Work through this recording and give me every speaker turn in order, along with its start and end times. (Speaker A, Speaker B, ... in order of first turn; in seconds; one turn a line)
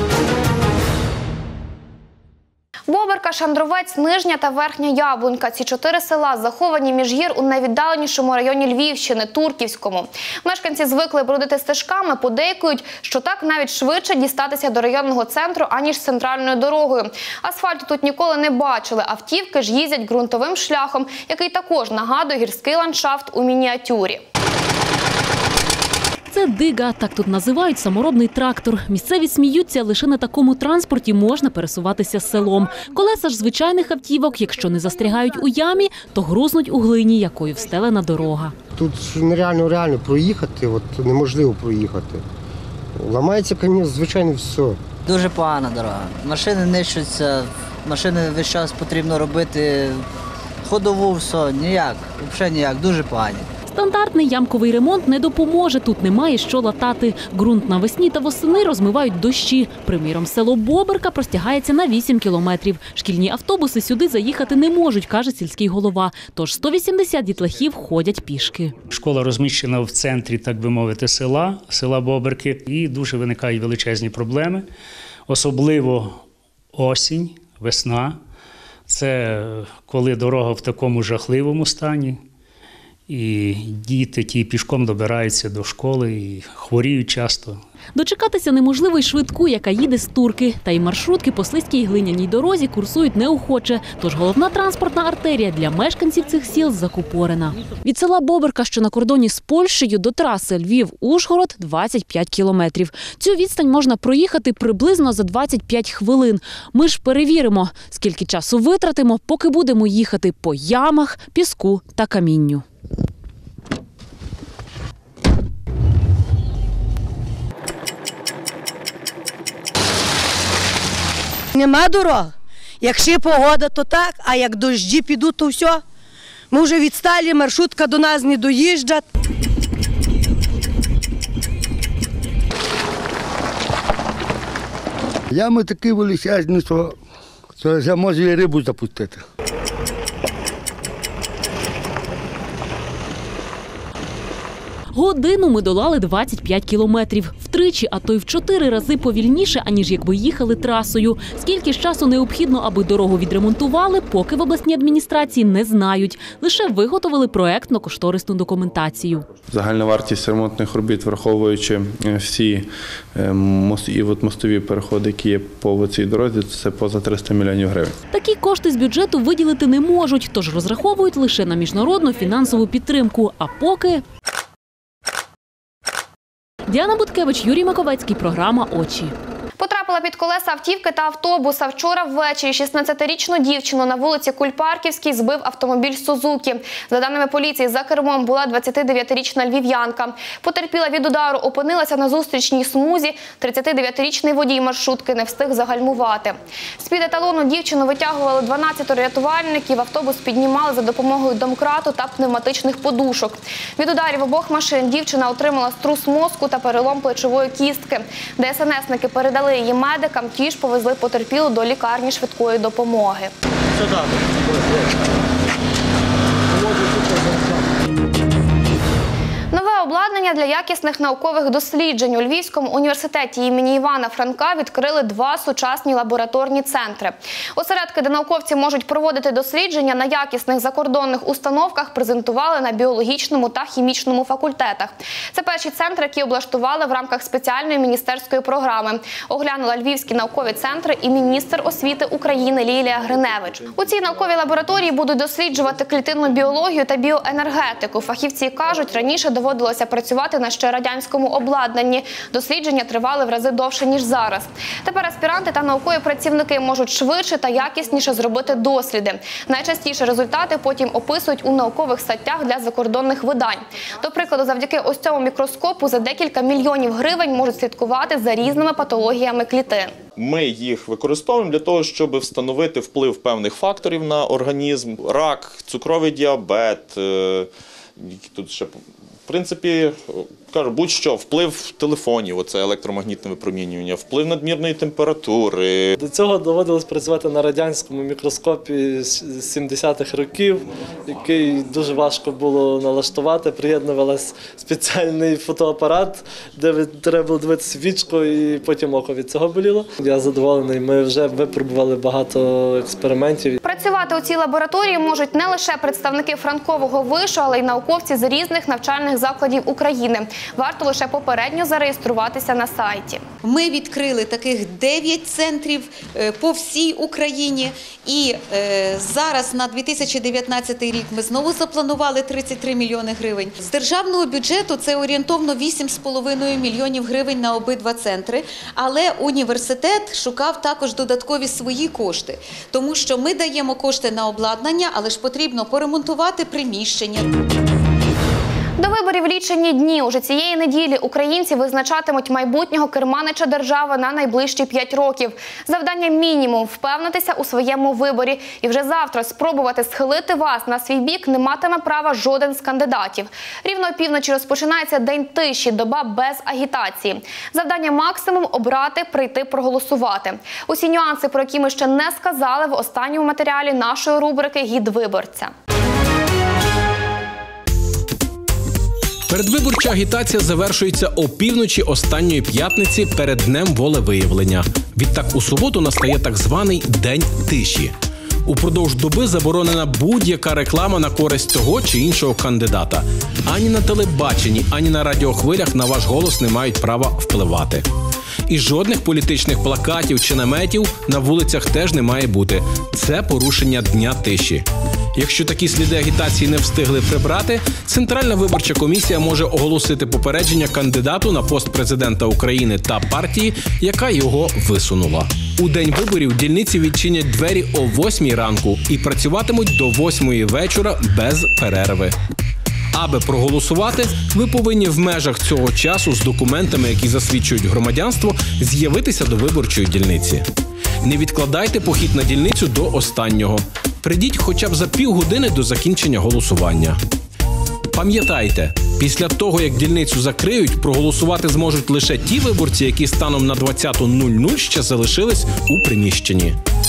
Speaker A: 2.9-24.2
Speaker B: 26.3-38.5
Speaker C: 38.8-42.2
Speaker C: 43.0-44.8
Speaker D: 45.1-50.1
Speaker D: 50.6-53.5
Speaker B: 53.7-68.8
Speaker E: 68.9-74.7
Speaker E: 75.3-78.2
Speaker E: 78.9-82.2
Speaker E: 83.1-87.6
Speaker B: 88.0-112.7
Speaker F: 121.5-125.8
Speaker F: 126.5-129.1
Speaker G: 135.3-136.9
Speaker G: 137.6-139.2
Speaker B: 144.9-159.2
Speaker H: 159.5-167.9
Speaker B: 168.1-174.0
Speaker B: 176.7-179.2
Speaker A: 179.6-213.3
Speaker A: 219.5-270.0
Speaker I: 270.2-277.5
Speaker I: 278.0-278.7
Speaker I: 279.3-285.9
Speaker J: 286.0-303.6
Speaker A: 303.6-313.2
Speaker K: 313.4-337.3
Speaker A: 338.8-365.5
Speaker L: 369.3-377.9
Speaker L: 378.4-387.9
Speaker L: 388.5-412.1
Speaker L: 412.9-420.5
Speaker L: 421.0-427.0
Speaker L: 427.9-436.6